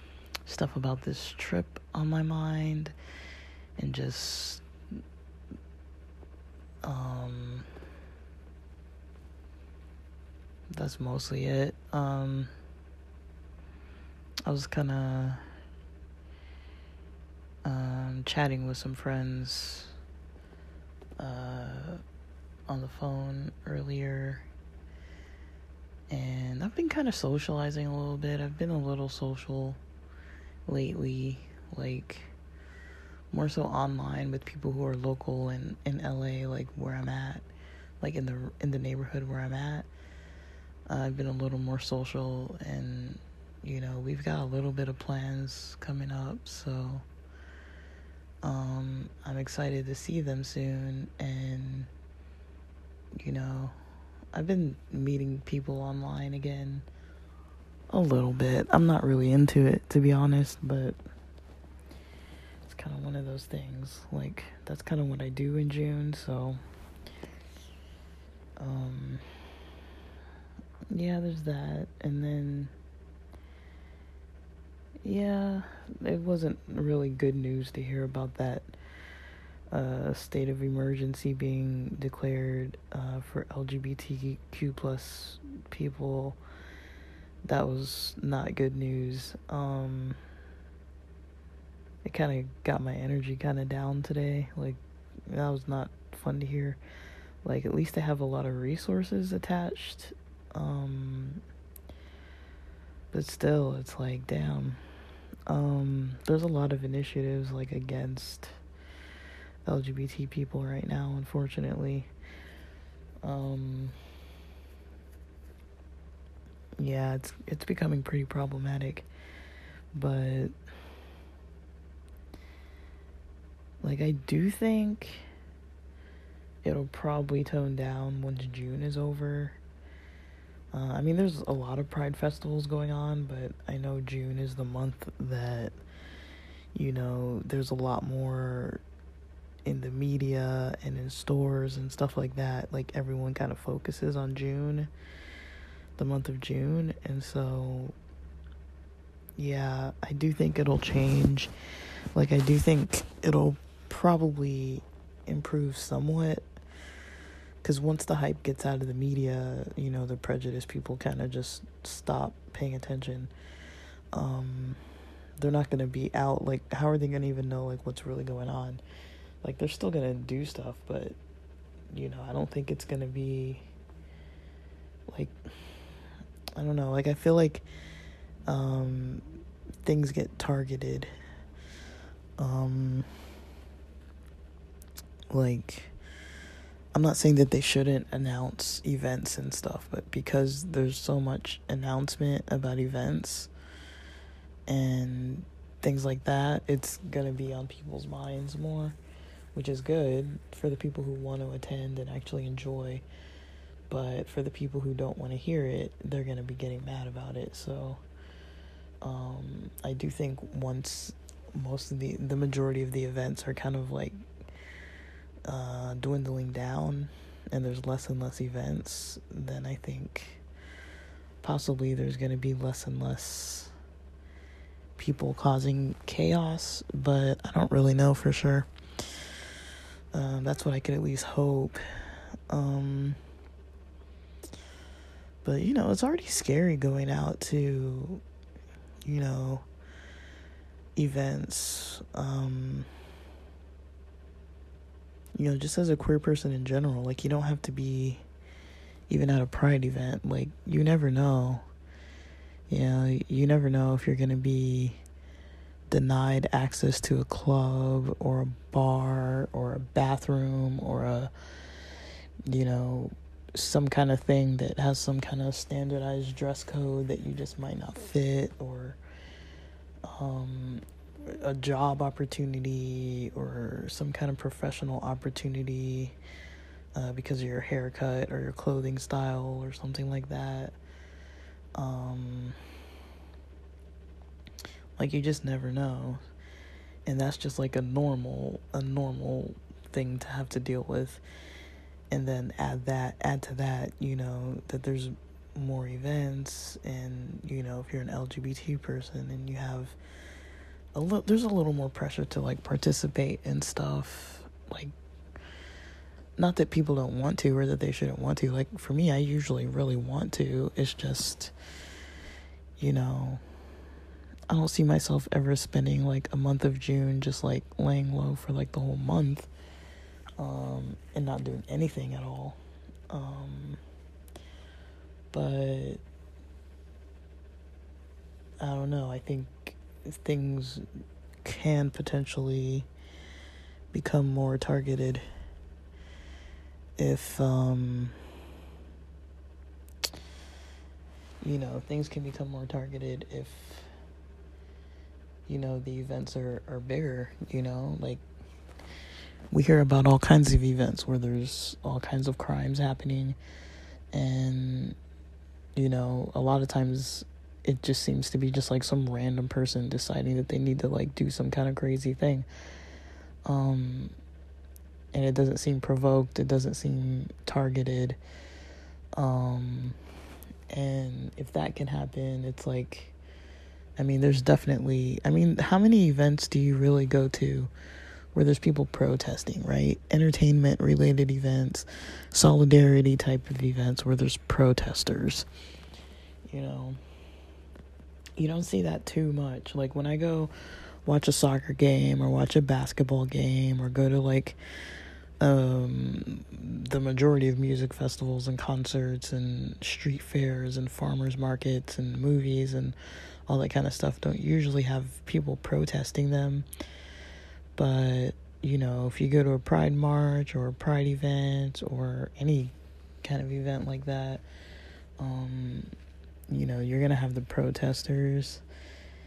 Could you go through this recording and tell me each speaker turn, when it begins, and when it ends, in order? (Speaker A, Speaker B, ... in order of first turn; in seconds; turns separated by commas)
Speaker A: 0.4-2.9, Speaker A: 3.8-4.6, Speaker A: 6.8-7.7, Speaker A: 10.7-12.5, Speaker A: 14.4-15.4, Speaker A: 17.6-19.9, Speaker A: 21.2-22.0, Speaker A: 22.7-24.4, Speaker A: 26.1-29.8, Speaker A: 30.6-32.3, Speaker A: 33.3-37.5, Speaker A: 38.0-39.9, Speaker A: 40.9-47.0, Speaker A: 48.4-51.9, Speaker A: 53.2-53.7, Speaker A: 54.3-56.9, Speaker A: 57.9-61.0, Speaker A: 62.6-66.6, Speaker A: 68.6-69.2, Speaker A: 70.9-72.7, Speaker A: 75.0-78.8, Speaker A: 79.7-86.4, Speaker A: 87.5-90.2, Speaker A: 92.0-96.8, Speaker A: 97.4-101.4, Speaker A: 103.1-104.8, Speaker A: 105.5-108.5, Speaker A: 109.7-112.1, Speaker A: 113.2-114.0, Speaker A: 116.8-119.1, Speaker A: 119.9-120.5, Speaker A: 123.8-125.3, Speaker A: 126.6-129.6, Speaker A: 130.7-135.8, Speaker A: 136.7-138.8, Speaker A: 139.6-144.9, Speaker A: 146.0-147.9, Speaker A: 149.4-151.5, Speaker A: 152.1-156.5, Speaker A: 157.6-163.3, Speaker A: 164.1-164.8, Speaker A: 165.4-168.8, Speaker A: 169.4-171.2, Speaker A: 171.9-173.7, Speaker A: 175.1-175.7, Speaker A: 176.6-177.7, Speaker A: 178.5-179.2, Speaker A: 179.8-181.1, Speaker A: 182.4-183.1, Speaker A: 185.3-185.9, Speaker A: 186.9-193.5, Speaker A: 194.7-199.0, Speaker A: 199.5-203.0, Speaker A: 203.9-208.0, Speaker A: 209.0-214.2, Speaker A: 215.5-220.4, Speaker A: 221.4-223.7, Speaker A: 225.0-228.7, Speaker A: 230.1-231.8, Speaker A: 232.5-233.2, Speaker A: 235.4-238.2, Speaker A: 239.0-239.7, Speaker A: 240.9-242.9, Speaker A: 245.3-248.2, Speaker A: 249.1-251.7, Speaker A: 252.7-255.0, Speaker A: 255.9-261.3, Speaker A: 262.5-269.0, Speaker A: 270.0-276.1, Speaker A: 276.9-280.8, Speaker A: 281.8-282.6, Speaker A: 285.0-286.2, Speaker A: 287.1-291.2, Speaker A: 292.1-299.9, Speaker A: 300.9-304.9, Speaker A: 306.4-311.5, Speaker A: 312.8-313.4, Speaker A: 314.5-319.5, Speaker A: 320.4-322.6, Speaker A: 323.1-323.8, Speaker A: 325.3-326.0, Speaker A: 328.6-330.8, Speaker A: 331.4-332.9, Speaker A: 333.9-335.2, Speaker A: 337.0-338.1, Speaker A: 341.4-343.9, Speaker A: 345.5-348.2, Speaker A: 349.5-353.4, Speaker A: 354.1-355.0, Speaker A: 355.8-362.5, Speaker A: 363.4-364.1, Speaker A: 365.1-368.2, Speaker A: 369.1-370.0, Speaker A: 370.7-373.1, Speaker A: 374.0-377.7, Speaker A: 378.3-385.4, Speaker A: 386.5-387.0, Speaker A: 388.4-390.5, Speaker A: 391.0-394.6, Speaker A: 395.4-402.9, Speaker A: 403.5-406.7, Speaker A: 407.8-414.4, Speaker A: 415.2-415.9, Speaker A: 416.5-418.6